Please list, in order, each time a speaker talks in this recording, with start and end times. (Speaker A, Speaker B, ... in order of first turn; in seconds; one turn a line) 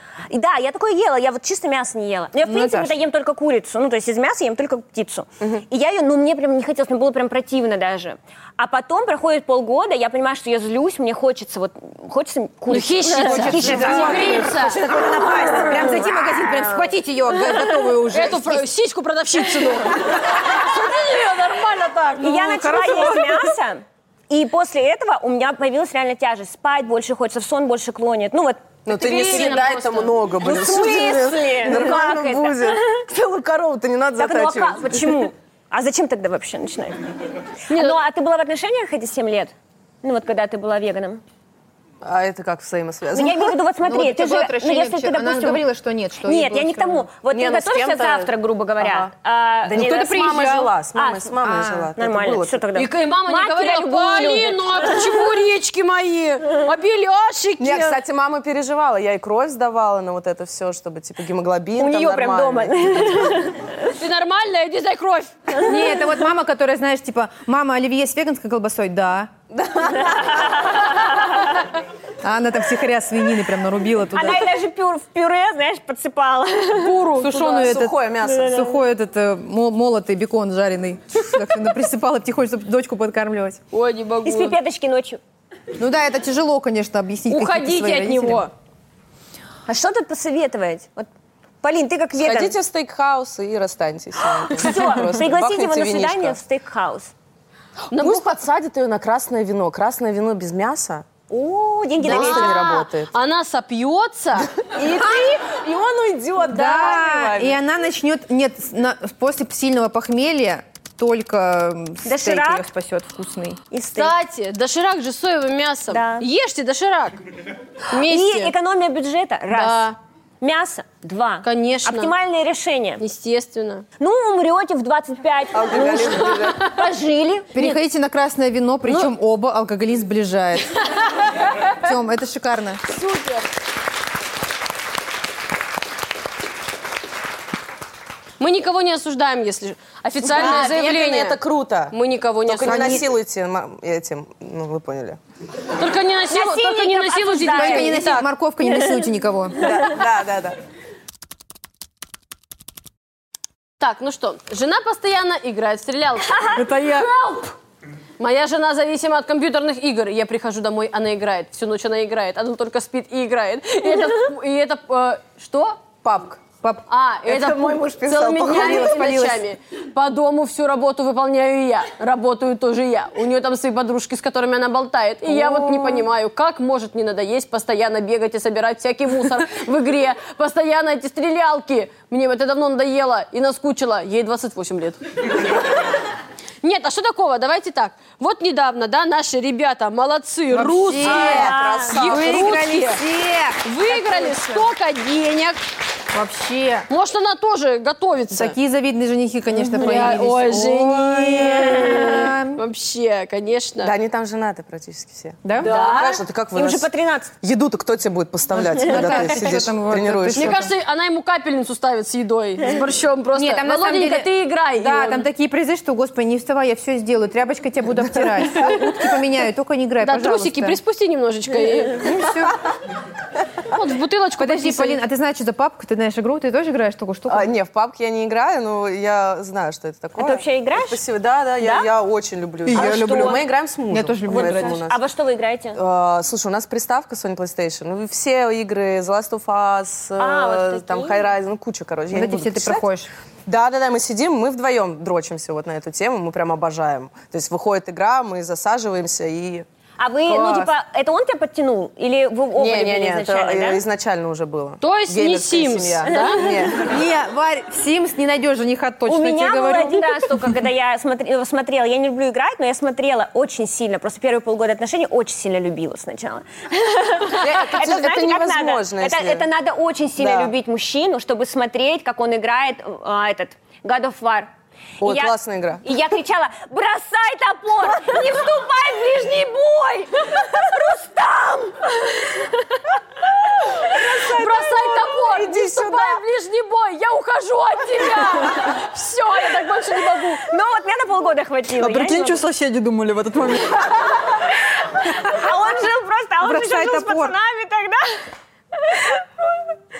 Speaker A: 0.3-14.3
Speaker B: 2.5-2.9
Speaker C: 12.7-14.8
Speaker B: 13.1-18.7
Speaker D: 13.5-15.9
Speaker A: 15.2-16.9
Speaker C: 18.1-23.0
Speaker A: 22.2-28.7
Speaker D: 22.7-23.4
Speaker D: 28.8-35.2
Speaker C: 28.9-30.2
Speaker A: 30.4-33.0
Speaker A: 34.2-37.0
Speaker A: 37.7-41.2
Speaker C: 37.7-38.0
Speaker D: 42.0-43.5
Speaker A: 43.1-45.6
Speaker B: 43.8-47.0
Speaker A: 46.2-55.3
Speaker D: 47.3-49.1
Speaker D: 49.6-52.6
Speaker B: 51.5-51.9
Speaker C: 52.7-58.0
Speaker D: 57.6-63.3
Speaker A: 61.8-63.8
Speaker C: 64.0-65.6
Speaker B: 65.6-69.3
Speaker D: 69.5-70.5
Speaker A: 70.0-71.6
Speaker B: 72.2-74.5
Speaker A: 74.1-77.1
Speaker C: 76.8-77.8
Speaker B: 77.2-83.6
Speaker D: 77.2-78.7
Speaker A: 78.2-78.7
Speaker C: 83.7-84.6
Speaker A: 84.2-85.2
Speaker B: 85.8-88.5
Speaker C: 87.3-88.5
Speaker A: 89.7-91.1
Speaker A: 91.6-92.5
Speaker D: 92.2-96.4
Speaker A: 94.5-97.1
Speaker C: 97.9-98.3
Speaker D: 97.9-101.2
Speaker A: 101.3-102.9
Speaker D: 102.0-103.1
Speaker C: 102.0-104.5
Speaker D: 104.6-107.6
Speaker B: 106.5-113.6
Speaker A: 112.0-112.7
Speaker A: 113.7-114.1
Speaker C: 113.9-117.2
Speaker A: 115.9-116.3
Speaker C: 117.9-118.5
Speaker A: 117.9-123.0
Speaker C: 119.5-120.0
Speaker C: 121.4-122.1
Speaker C: 123.0-123.8
Speaker A: 124.0-127.7
Speaker D: 125.5-126.6
Speaker C: 126.3-127.0
Speaker B: 127.5-130.8
Speaker B: 131.8-132.8
Speaker C: 132.9-133.5
Speaker C: 138.4-141.4
Speaker D: 140.2-141.9
Speaker C: 141.9-143.0
Speaker D: 142.5-145.2
Speaker B: 142.6-143.1
Speaker C: 145.8-148.2
Speaker A: 146.3-148.1
Speaker B: 147.5-149.7
Speaker D: 149.6-150.6
Speaker C: 153.8-157.5
Speaker B: 156.5-157.1
Speaker C: 158.2-165.8
Speaker D: 166.0-166.4
Speaker C: 166.9-185.0
Speaker D: 167.2-169.2
Speaker B: 168.4-169.4
Speaker D: 175.2-176.1
Speaker C: 186.6-193.0
Speaker B: 190.5-194.7
Speaker D: 191.0-192.6
Speaker A: 191.1-191.9
Speaker C: 193.6-195.6
Speaker B: 196.1-196.9
Speaker C: 196.9-198.6
Speaker B: 198.3-202.6
Speaker C: 199.6-203.9
Speaker D: 203.8-206.9
Speaker B: 205.4-205.7
Speaker C: 205.6-206.2
Speaker A: 205.6-207.3
Speaker D: 207.4-210.6
Speaker B: 208.5-210.7
Speaker A: 208.8-209.1
Speaker C: 210.3-215.3
Speaker B: 213.3-220.8
Speaker C: 220.0-222.1
Speaker B: 222.0-222.6
Speaker C: 223.6-225.0
Speaker B: 224.4-227.5
Speaker D: 227.3-235.0
Speaker A: 230.2-231.0
Speaker A: 231.6-231.9
Speaker E: 232.7-233.4
Speaker A: 232.7-233.4
Speaker B: 233.9-234.8
Speaker A: 234.2-235.8
Speaker D: 235.7-242.8
Speaker A: 240.2-241.3
Speaker B: 242.1-243.1
Speaker D: 243.4-249.7
Speaker A: 250.0-253.8
Speaker B: 250.3-250.7
Speaker D: 252.6-256.9
Speaker C: 254.8-256.5
Speaker A: 256.1-256.4
Speaker B: 256.8-260.4
Speaker A: 259.1-275.3
Speaker D: 267.3-269.5
Speaker D: 270.2-270.5
Speaker D: 275.0-275.8
Speaker A: 275.8-282.8
Speaker D: 283.8-286.2
Speaker C: 284.2-290.4
Speaker A: 290.5-292.4
Speaker E: 291.8-294.2
Speaker A: 294.9-298.2
Speaker B: 296.4-297.3
Speaker A: 298.7-299.7